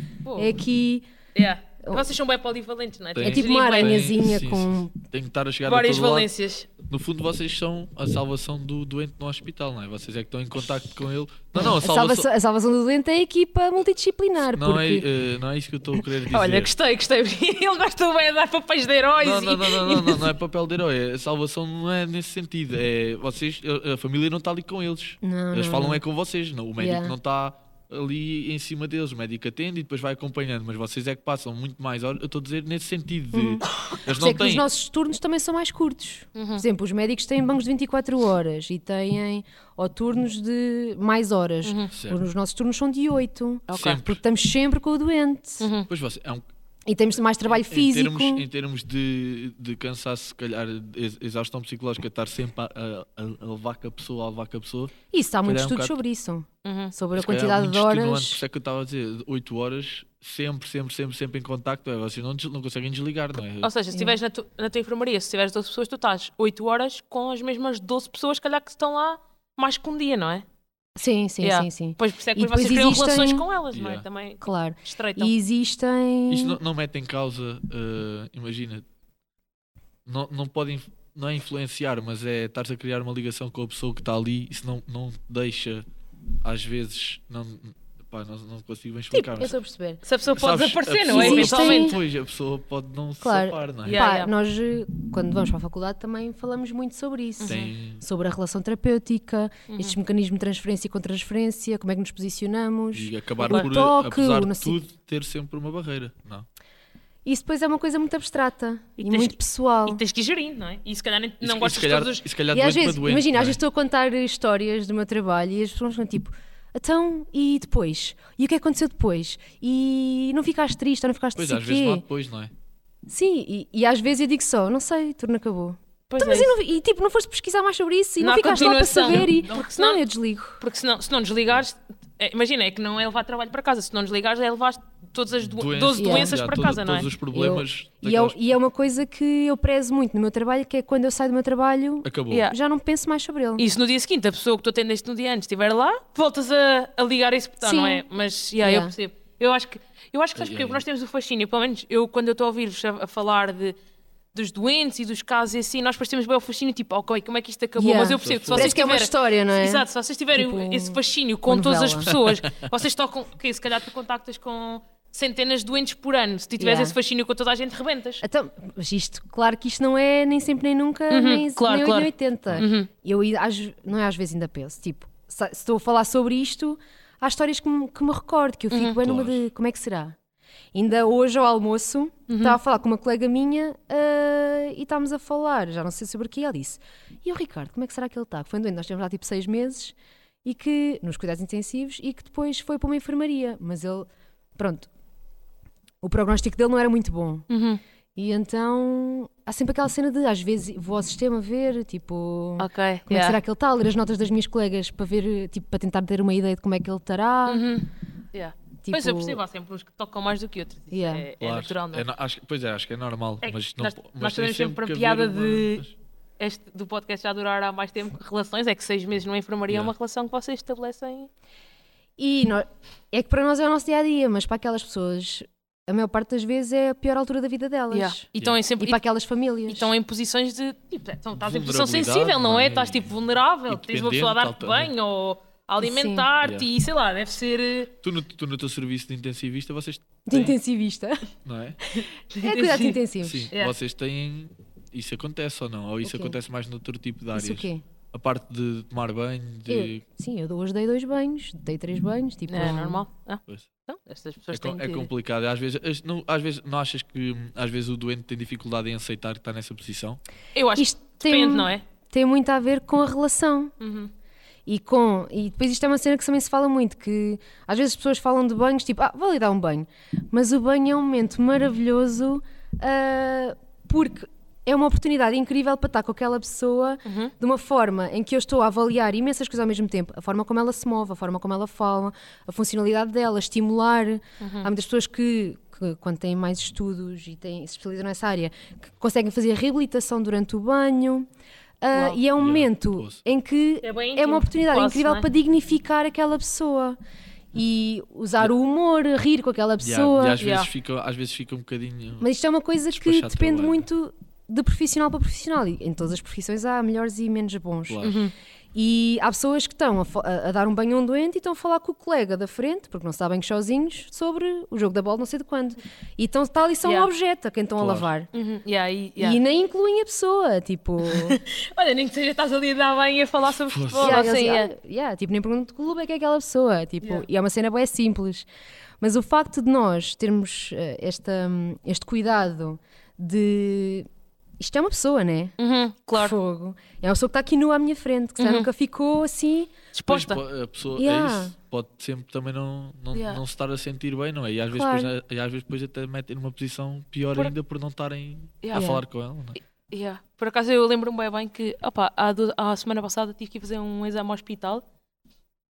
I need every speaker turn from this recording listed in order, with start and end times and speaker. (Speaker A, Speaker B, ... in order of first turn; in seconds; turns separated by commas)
Speaker A: 0.2-0.5, Speaker B: 0.3-1.1, Speaker A: 1.3-4.1, Speaker C: 3.1-6.3, Speaker B: 3.2-4.9, Speaker A: 5.7-6.7, Speaker C: 6.8-12.3, Speaker B: 11.5-15.1, Speaker C: 14.5-16.7, Speaker A: 16.2-20.3, Speaker C: 19.2-34.6, Speaker B: 25.2-26.0, Speaker B: 26.8-27.1, Speaker B: 33.3-45.7, Speaker A: 36.3-36.6, Speaker A: 41.6-41.9, Speaker C: 41.9-42.2, Speaker A: 43.7-44.0, Speaker C: 43.7-44.1, Speaker A: 45.6-45.9, Speaker C: 45.9-46.4, Speaker B: 46.9-48.4, Speaker C: 47.5-54.9, Speaker B: 55.1-58.4, Speaker C: 55.4-56.0, Speaker A: 56.6-56.9, Speaker C: 57.1-63.7, Speaker A: 63.6-70.4, Speaker B: 63.9-64.2, Speaker B: 71.0-73.4, Speaker A: 71.4-75.3, Speaker C: 73.7-74.0, Speaker B: 74.4-76.6, Speaker C: 76.3-78.8, Speaker C: 80.0-85.8, Speaker C: 86.4-89.5, Speaker A: 89.1-89.5, Speaker B: 89.4-90.0, Speaker A: 90.0-92.0, Speaker C: 90.3-94.0, Speaker B: 91.1-92.0, Speaker B: 93.2-104.8, Speaker A: 93.8-94.3, Speaker A: 97.4-97.7, Speaker C: 97.5-98.0, Speaker A: 99.7-100.0, Speaker C: 102.9-106.5, Speaker B: 107.2-110.0, Speaker A: 109.0-112.2, Speaker C: 111.4-113.6, Speaker B: 112.5-122.0, Speaker C: 121.3-122.5, Speaker B: 123.1-130.6, Speaker A: 126.1-126.5, Speaker A: 128.2-130.0, Speaker C: 129.1-129.7, Speaker A: 130.6-137.1, Speaker C: 135.4-138.3, Speaker B: 136.0-136.3, Speaker B: 137.3-143.7, Speaker C: 142.0-142.5, Speaker A: 142.3-142.6, Speaker A: 143.6-153.8, Speaker B: 147.6-148.0, Speaker B: 148.6-148.9, Speaker C: 150.3-150.8, Speaker A: 154.3-168.2, Speaker B: 157.8-162.1, Speaker C: 158.2-158.7, Speaker C: 162.1-162.6, Speaker B: 166.6-166.9, Speaker B: 168.2-180.2, Speaker A: 171.1-172.9, Speaker A: 178.7-179.0, Speaker C: 179.0-179.4, Speaker B: 180.7-194.9, Speaker A: 182.3-182.6, Speaker B: 196.0-197.4, Speaker A: 197.5-197.8, Speaker B: 198.2-207.7, Speaker A: 202.6-203.4, Speaker A: 207.5-212.1, Speaker B: 208.8-209.4, Speaker B: 210.9-211.3, Speaker C: 211.4-215.9, Speaker A: 213.4-215.8, Speaker A: 216.4-221.3, Speaker B: 222.2-228.2, Speaker A: 227.9-229.0, Speaker B: 228.8-229.9, Speaker A: 229.7-237.9, Speaker C: 231.4-233.1, Speaker C: 233.7-234.9, Speaker B: 235.8-236.3, Speaker C: 236.4-236.7, Speaker C: 238.0-240.5, Speaker B: 240.3-241.2, Speaker C: 241.4-241.8, Speaker A: 242.0-243.0, Speaker B: 242.4-243.5, Speaker C: 243.2-250.0, Speaker B: 246.0-246.4, Speaker B: 247.3-247.8, Speaker B: 249.7-253.0, Speaker A: 252.5-255.1, Speaker C: 254.5-260.2, Speaker A: 260.5-261.8, Speaker B: 260.8-263.7, Speaker A: 263.8-264.1, Speaker B: 264.6-291.3, Speaker A: 277.1-277.3, Speaker A: 284.4-284.7, Speaker B: 291.8-297.0, Speaker A: 291.9-292.2, Speaker C: 292.4-293.2, Speaker A: 293.8-295.3, Speaker B: 297.5-300.4, Speaker C: 299.8-302.3, Speaker A: 300.4-300.7, Speaker B: 302.2-308.0, Speaker C: 302.9-303.8, Speaker C: 307.9-308.3, Speaker A: 308.0-308.3, Speaker B: 308.7-318.3, Speaker A: 316.8-317.1, Speaker C: 317.8-318.1, Speaker A: 318.3-319.4, Speaker B: 319.2-321.4, Speaker A: 321.0-324.7, Speaker C: 323.7-324.3, Speaker B: 324.0-328.4, Speaker B: 329.0-334.1, Speaker B: 334.6-335.5, Speaker A: 335.6-336.3, Speaker B: 336.1-339.7, Speaker A: 338.4-338.7, Speaker A: 339.9-340.4, Speaker C: 340.1-349.6, Speaker B: 341.0-341.5, Speaker A: 343.1-343.4, Speaker B: 344.7-345.1, Speaker A: 348.6-349.0, Speaker A: 349.9-354.8